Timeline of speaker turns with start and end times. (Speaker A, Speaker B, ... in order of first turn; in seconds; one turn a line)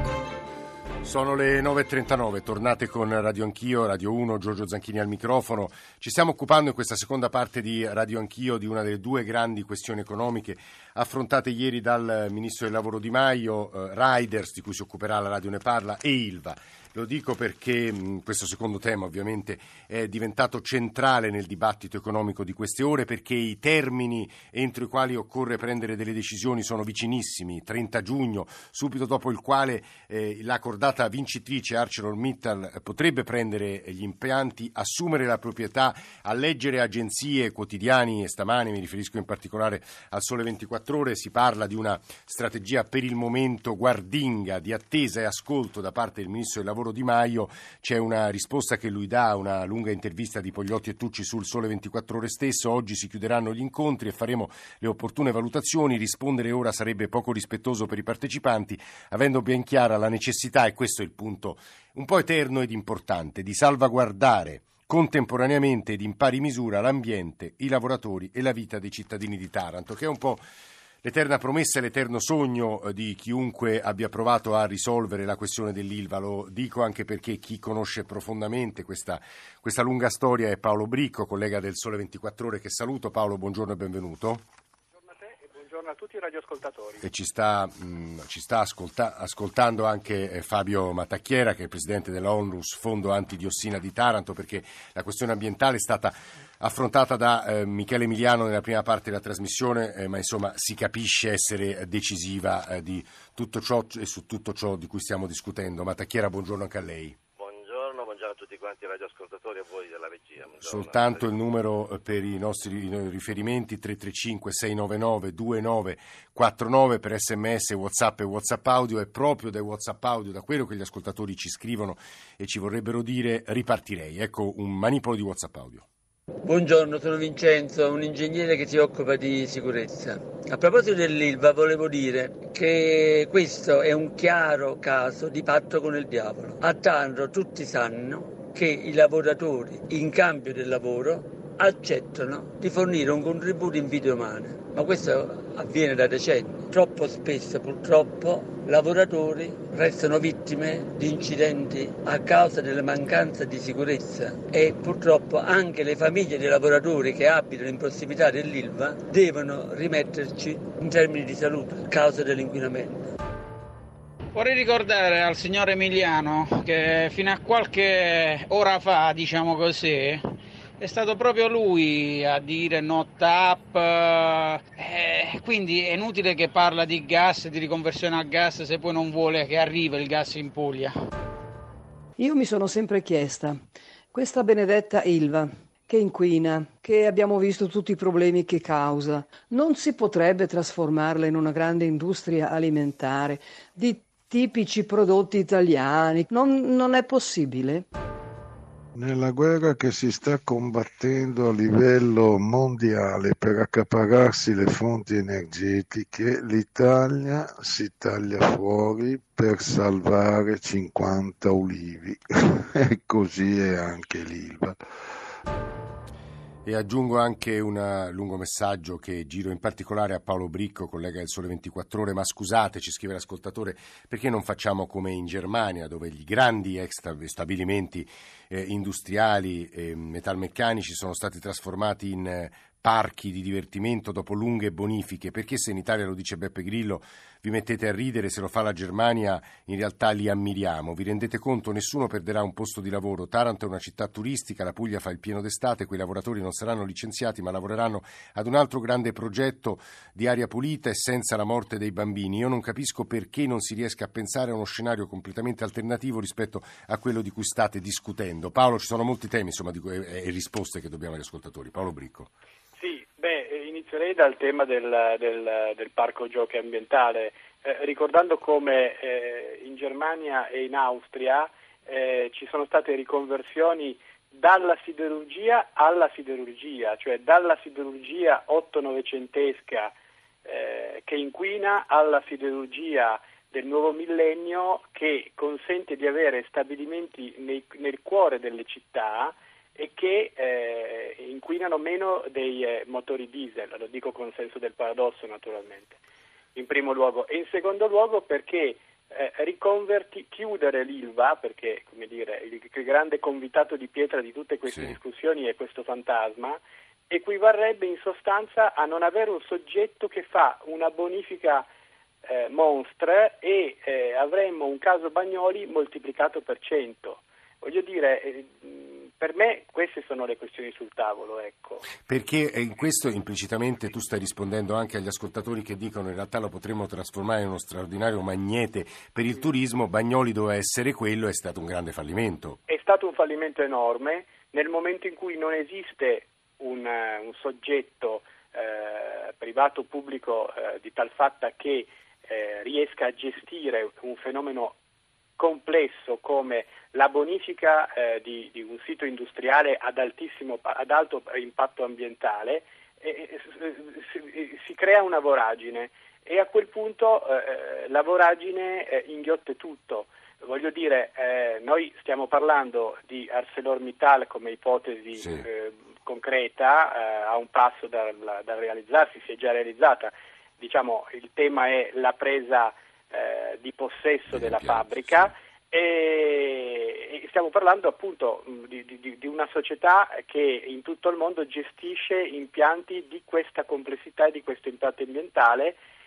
Speaker A: 1.0-70.4
Speaker A: 71.0-84.4
Speaker B: 85.1-87.0
Speaker A: 87.0-107.2
Speaker C: 107.4-111.2
Speaker A: 110.6-125.8
Speaker D: 126.4-163.1
Speaker E: 164.3-180.9
Speaker F: 182.2-183.6
Speaker F: 184.1-197.9
Speaker G: 199.0-214.8
Speaker A: 216.7-262.3
Speaker B: 262.8-279.9
Speaker B: 280.4-296.0
Speaker B: 296.6-311.7
Speaker A: 304.7-305.0
Speaker B: 312.2-321.8
Speaker A: 322.1-332.6
Speaker B: 332.7-344.8
Speaker B: 345.4-385.8
Speaker A: 365.1-365.5
Speaker A: 374.3-375.3